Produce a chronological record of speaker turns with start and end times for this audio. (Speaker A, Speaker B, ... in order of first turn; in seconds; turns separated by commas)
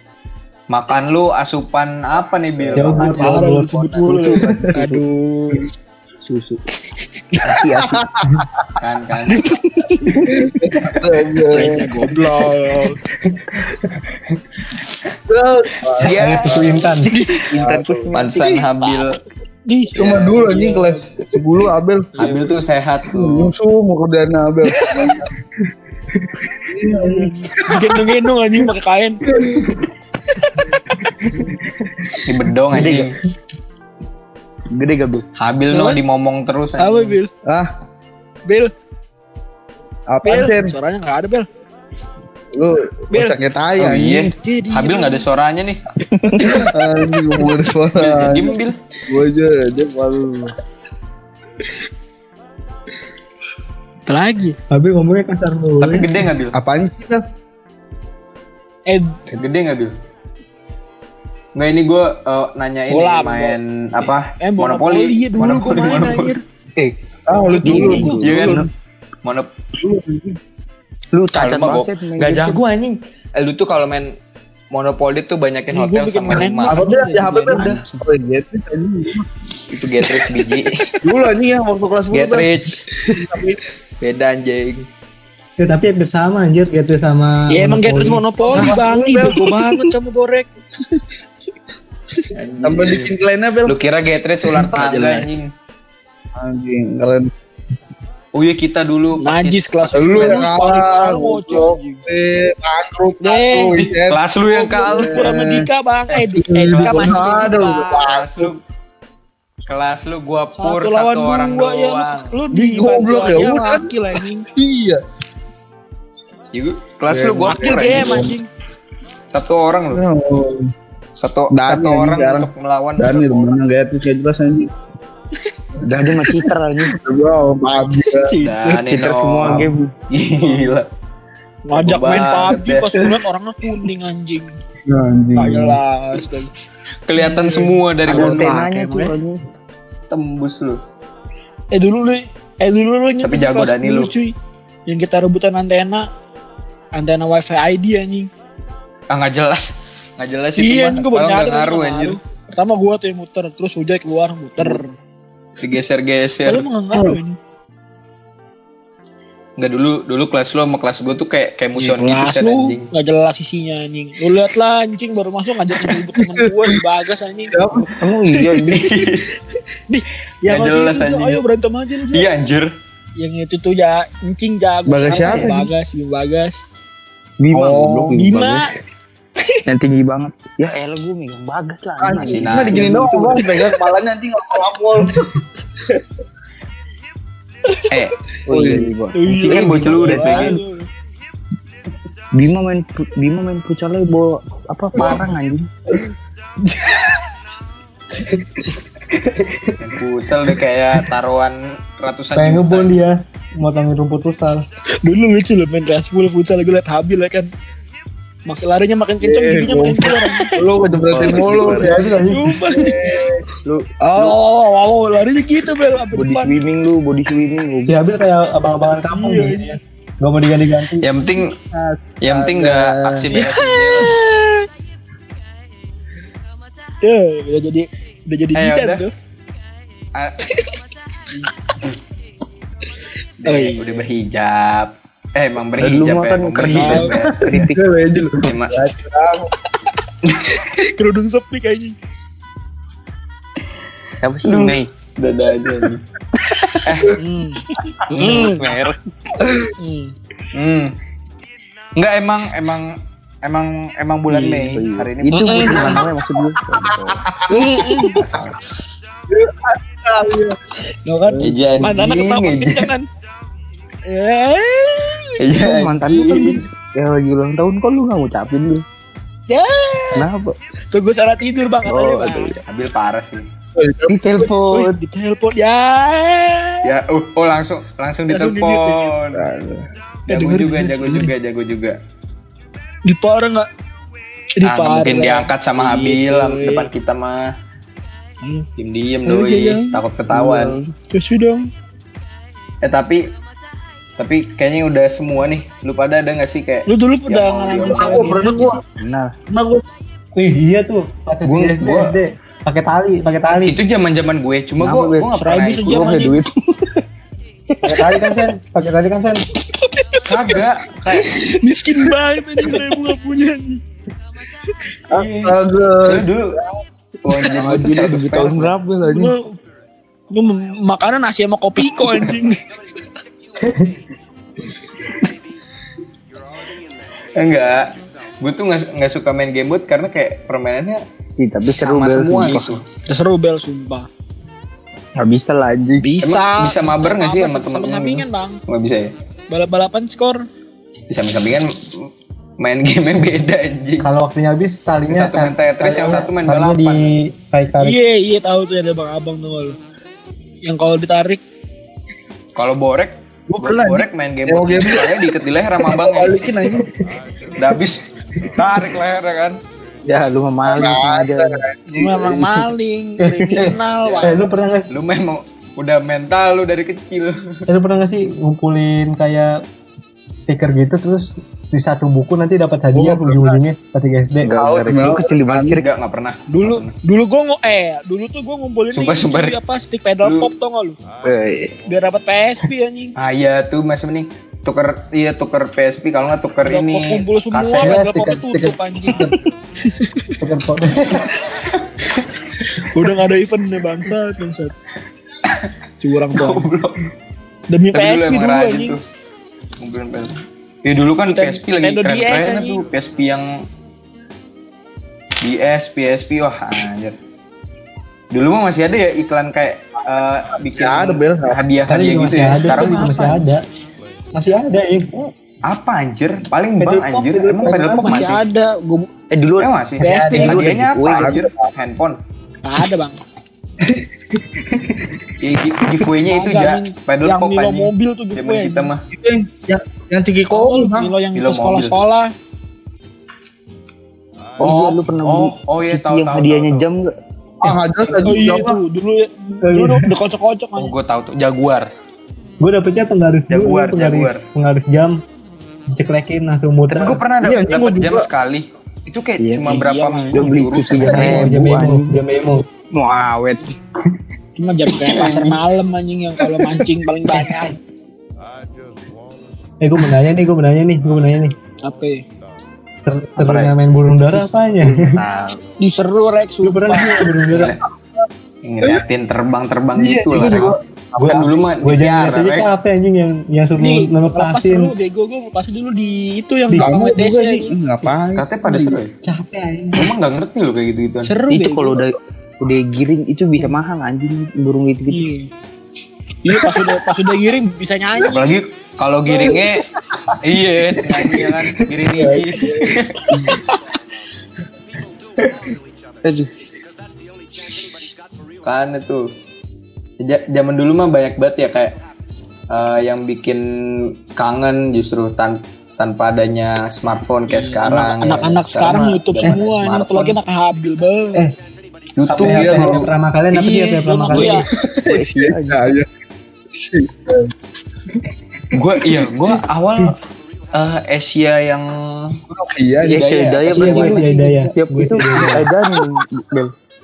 Speaker A: 0.7-4.8, Speaker B: 2.6-3.0, Speaker C: 2.8-3.9, Speaker D: 3.0-5.7, Speaker E: 4.8-5.0, Speaker E: 6.3-6.6, Speaker E: 7.4-8.0, Speaker B: 7.4-8.7, Speaker A: 8.8-9.4, Speaker D: 9.3-10.0, Speaker B: 10.2-12.2, Speaker D: 11.5-13.0, Speaker C: 13.3-14.2, Speaker B: 15.3-16.9, Speaker E: 16.0-18.6, Speaker C: 16.1-17.1, Speaker D: 17.1-17.5, Speaker B: 17.5-18.1, Speaker A: 18.1-19.2, Speaker D: 18.4-19.1, Speaker D: 19.7-21.1, Speaker B: 19.9-22.1, Speaker A: 20.0-20.5, Speaker D: 22.2-22.5, Speaker A: 22.2-23.5, Speaker B: 23.1-25.3, Speaker D: 24.8-25.1, Speaker B: 26.6-28.1, Speaker D: 27.0-29.2, Speaker B: 29.3-29.6, Speaker D: 30.3-30.6, Speaker A: 32.2-33.1, Speaker E: 32.7-33.1, Speaker E: 34.7-35.2, Speaker A: 35.4-37.2, Speaker D: 35.7-36.0, Speaker D: 36.8-37.3, Speaker B: 37.5-37.7, Speaker D: 38.5-38.7, Speaker B: 40.1-40.8, Speaker D: 40.2-41.5, Speaker B: 42.5-44.3, Speaker D: 43.1-43.4, Speaker A: 43.8-45.8, Speaker D: 44.3-45.2, Speaker E: 46.1-46.6, Speaker B: 46.4-50.5, Speaker A: 48.0-48.8, Speaker D: 54.1-54.6, Speaker C: 54.7-56.2, Speaker A: 55.8-56.6, Speaker B: 56.5-57.2, Speaker D: 58.9-59.2, Speaker A: 59.3-60.0, Speaker A: 61.5-66.3, Speaker D: 62.9-66.4, Speaker B: 67.3-68.7, Speaker D: 67.5-68.3, Speaker E: 67.6-68.7, Speaker A: 67.7-68.7, Speaker A: 69.2-69.5, Speaker B: 69.8-70.4, Speaker E: 71.1-72.6, Speaker A: 71.3-74.1, Speaker A: 74.7-76.8, Speaker D: 75.7-77.9, Speaker B: 76.7-79.4, Speaker A: 79.7-80.8, Speaker B: 81.0-82.5, Speaker A: 82.1-82.8, Speaker B: 83.0-83.6, Speaker A: 84.0-84.9, Speaker C: 85.6-88.2, Speaker D: 87.5-90.5, Speaker B: 88.4-89.6, Speaker A: 92.3-93.1, Speaker B: 92.6-93.8, Speaker A: 93.7-95.5, Speaker B: 96.4-97.3, Speaker A: 98.3-100.5, Speaker D: 99.2-102.0, Speaker B: 99.9-104.2, Speaker D: 103.2-103.9, Speaker A: 104.1-105.3, Speaker D: 104.5-107.9, Speaker B: 104.8-105.7, Speaker B: 106.3-108.5, Speaker A: 106.7-108.6, Speaker A: 109.7-112.4, Speaker D: 110.6-114.5, Speaker B: 112.5-115.0, Speaker A: 116.5-118.3, Speaker B: 117.1-118.3, Speaker D: 117.5-118.5, Speaker A: 119.3-120.0, Speaker B: 119.9-120.7, Speaker A: 121.2-123.6, Speaker B: 121.5-124.7, Speaker B: 125.8-128.3, Speaker E: 125.8-127.0, Speaker D: 128.1-128.7, Speaker A: 128.4-130.9, Speaker E: 128.8-129.9, Speaker D: 131.7-134.6, Speaker A: 131.8-133.1, Speaker B: 134.9-135.8, Speaker D: 135.3-136.5, Speaker A: 137.1-138.7, Speaker D: 137.2-139.2, Speaker E: 138.1-139.4, Speaker A: 140.1-140.8, Speaker D: 141.7-144.3, Speaker A: 143.2-144.1, Speaker D: 144.9-146.1, Speaker D: 146.9-148.3, Speaker A: 149.1-152.2, Speaker D: 150.6-154.9, Speaker A: 155.6-156.7, Speaker D: 156.4-157.4, Speaker A: 159.6-162.9, Speaker D: 161.8-167.6, Speaker B: 165.8-166.8, Speaker B: 167.5-167.9, Speaker E: 167.9-168.9, Speaker A: 168.7-169.3, Speaker D: 169.9-172.3, Speaker A: 170.4-171.4, Speaker A: 172.1-172.7, Speaker D: 173.2-176.6, Speaker B: 174.9-175.7, Speaker A: 175.2-175.4, Speaker E: 177.4-178.7, Speaker B: 177.5-178.2, Speaker D: 178.1-178.7, Speaker E: 179.7-183.1, Speaker B: 182.0-185.4, Speaker A: 182.2-183.4, Speaker D: 187.7-187.9, Speaker A: 187.9-188.2, Speaker E: 188.5-190.6, Speaker B: 188.5-188.9, Speaker D: 189.1-190.9, Speaker A: 189.3-190.6, Speaker E: 192.3-195.7, Speaker A: 195.0-195.3, Speaker D: 196.6-197.2, Speaker C: 198.2-198.6, Speaker C: 199.1-199.8, Speaker A: 199.8-203.0, Speaker C: 202.4-204.7, Speaker D: 205.0-207.5, Speaker D: 208.5-210.7, Speaker B: 209.2-212.1, Speaker E: 211.0-212.0, Speaker C: 211.5-212.7, Speaker D: 211.6-213.2, Speaker B: 212.7-213.4, Speaker D: 214.1-216.6, Speaker E: 216.1-218.0, Speaker C: 217.8-221.1, Speaker D: 219.1-219.8, Speaker A: 221.0-221.6, Speaker B: 221.7-223.3, Speaker A: 222.2-224.2, Speaker D: 223.3-224.7, Speaker D: 227.0-229.1, Speaker A: 228.6-229.1, Speaker A: 230.2-230.4, Speaker D: 233.4-234.1, Speaker A: 233.4-237.7, Speaker E: 235.8-237.8, Speaker D: 236.7-237.2, Speaker B: 237.5-239.5, Speaker A: 238.4-238.9, Speaker D: 240.7-241.9, Speaker E: 244.2-244.9, Speaker A: 244.4-246.0, Speaker E: 246.4-246.8, Speaker A: 246.8-247.2, Speaker D: 247.2-248.7, Speaker E: 248.1-249.0, Speaker B: 249.4-249.7, Speaker D: 249.8-250.1, Speaker A: 250.5-250.9, Speaker A: 252.0-256.0, Speaker E: 254.3-257.2, Speaker D: 255.3-255.9, Speaker B: 256.7-258.3, Speaker D: 257.5-258.2, Speaker A: 258.2-258.6, Speaker B: 259.3-260.6, Speaker D: 261.1-263.1, Speaker B: 261.3-261.9, Speaker A: 261.4-262.9, Speaker D: 264.1-265.6, Speaker A: 265.4-266.4, Speaker E: 265.6-268.8, Speaker D: 266.1-266.5, Speaker D: 269.5-270.3, Speaker E: 270.1-270.6, Speaker D: 270.9-272.6, Speaker E: 271.9-272.6, Speaker A: 272.6-273.5, Speaker B: 273.8-274.5, Speaker E: 274.1-275.0, Speaker D: 274.7-276.9, Speaker A: 276.8-279.5, Speaker D: 278.3-279.0, Speaker B: 279.3-279.9, Speaker D: 280.3-281.3, Speaker A: 280.3-282.0, Speaker D: 283.1-283.7, Speaker D: 284.6-286.9, Speaker A: 284.6-287.5, Speaker D: 288.4-288.7, Speaker A: 288.8-290.8, Speaker D: 289.3-289.9, Speaker E: 290.3-290.9, Speaker D: 291.1-291.7, Speaker A: 292.8-293.3, Speaker A: 294.2-298.4, Speaker D: 296.9-298.8, Speaker B: 297.8-298.8, Speaker E: 299.0-299.4, Speaker B: 299.5-299.8, Speaker C: 300.4-303.8, Speaker A: 301.4-302.1, Speaker A: 303.6-306.2, Speaker E: 304.8-307.0, Speaker D: 305.3-306.4, Speaker E: 307.7-308.2, Speaker C: 307.8-309.4, Speaker D: 309.8-313.8, Speaker A: 310.2-311.4, Speaker B: 315.1-316.6, Speaker A: 315.1-316.6, Speaker A: 317.2-318.8, Speaker E: 317.4-319.3, Speaker B: 319.0-319.3, Speaker D: 319.1-319.6, Speaker D: 320.3-322.6, Speaker C: 323.6-323.9, Speaker A: 327.4-331.0, Speaker E: 331.4-332.8, Speaker A: 331.8-332.9, Speaker D: 333.1-334.1, Speaker E: 335.2-336.1, Speaker D: 336.0-338.6, Speaker A: 336.2-339.1, Speaker D: 339.5-340.4, Speaker A: 341.1-342.1, Speaker A: 342.6-344.1, Speaker C: 344.0-348.0, Speaker A: 345.1-347.1, Speaker D: 347.8-349.8, Speaker D: 350.6-351.4, Speaker A: 352.6-356.4, Speaker B: 353.5-356.9, Speaker A: 357.6-358.0, Speaker A: 358.6-359.6, Speaker E: 360.1-361.6, Speaker B: 360.7-362.7, Speaker D: 361.9-364.5, Speaker C: 363.2-364.9, Speaker A: 364.1-364.4, Speaker A: 364.9-367.6, Speaker C: 367.7-369.6, Speaker C: 370.4-374.6, Speaker B: 372.9-373.6, Speaker E: 374.4-375.9, Speaker B: 374.5-375.8, Speaker A: 375.5-376.9, Speaker D: 376.5-381.0, Speaker A: 378.9-379.6, Speaker A: 380.2-380.5, Speaker E: 381.2-381.8, Speaker D: 381.9-383.1, Speaker A: 383.2-388.0, Speaker D: 386.6-390.4, Speaker C: 387.8-389.4, Speaker C: 390.4-391.3, Speaker D: 392.7-394.8, Speaker A: 395.4-395.7, Speaker D: 396.0-396.7, Speaker A: 396.3-397.1, Speaker D: 397.7-399.0, Speaker A: 397.9-399.0, Speaker A: 399.8-403.6, Speaker D: 401.3-402.8, Speaker A: 405.4-407.2, Speaker A: 408.3-413.4, Speaker B: 410.7-411.6, Speaker C: 411.9-413.6, Speaker C: 414.3-415.3, Speaker A: 415.7-418.4, Speaker C: 416.8-418.3, Speaker D: 417.7-419.1, Speaker E: 419.3-421.4, Speaker A: 419.6-422.2, Speaker D: 420.0-420.6, Speaker C: 420.0-420.5, Speaker B: 421.1-421.7, Speaker D: 422.6-423.2, Speaker C: 423.9-425.1, Speaker A: 425.4-429.0, Speaker D: 426.3-428.9, Speaker B: 429.1-431.1, Speaker D: 430.5-432.3, Speaker A: 431.3-432.0, Speaker E: 434.6-437.1, Speaker A: 434.6-436.9, Speaker B: 437.6-438.8, Speaker D: 438.2-440.9, Speaker C: 439.6-440.1, Speaker A: 440.8-441.9, Speaker C: 442.6-445.2, Speaker A: 443.5-444.4, Speaker C: 445.9-447.2, Speaker A: 446.9-451.5, Speaker B: 447.4-448.3, Speaker E: 449.4-452.2, Speaker D: 449.8-450.4, Speaker C: 451.0-452.7, Speaker E: 452.9-453.8, Speaker D: 454.6-457.8, Speaker A: 455.0-455.6, Speaker C: 459.8-461.6, Speaker D: 461.8-462.2, Speaker C: 463.1-465.2, Speaker A: 463.4-463.7, Speaker E: 464.8-465.6, Speaker D: 465.8-467.3, Speaker C: 466.6-467.8, Speaker A: 467.5-467.8, Speaker A: 468.6-470.7, Speaker B: 469.9-471.6, Speaker C: 470.3-474.9, Speaker A: 471.3-472.7, Speaker D: 473.8-477.7, Speaker C: 476.7-476.9, Speaker B: 476.8-479.0, Speaker A: 478.4-479.1, Speaker C: 479.2-480.1, Speaker A: 480.0-481.3, Speaker D: 481.2-482.0, Speaker E: 481.5-485.3, Speaker D: 485.1-485.5, Speaker D: 486.4-488.5, Speaker A: 488.2-489.9, Speaker B: 489.3-489.6, Speaker A: 490.4-493.4, Speaker B: 492.1-493.6, Speaker D: 493.5-493.8, Speaker A: 498.6-499.3, Speaker A: 500.2-502.0, Speaker A: 502.7-510.4, Speaker D: 507.5-511.4, Speaker A: 512.2-513.1, Speaker C: 512.3-514.6, Speaker B: 512.4-513.1, Speaker D: 513.5-514.7, Speaker B: 514.8-516.1, Speaker E: 515.1-515.9, Speaker B: 516.7-517.5, Speaker A: 518.7-520.2, Speaker A: 520.7-522.4, Speaker B: 522.5-523.4, Speaker E: 523.0-526.7, Speaker A: 523.0-524.2, Speaker C: 523.7-525.7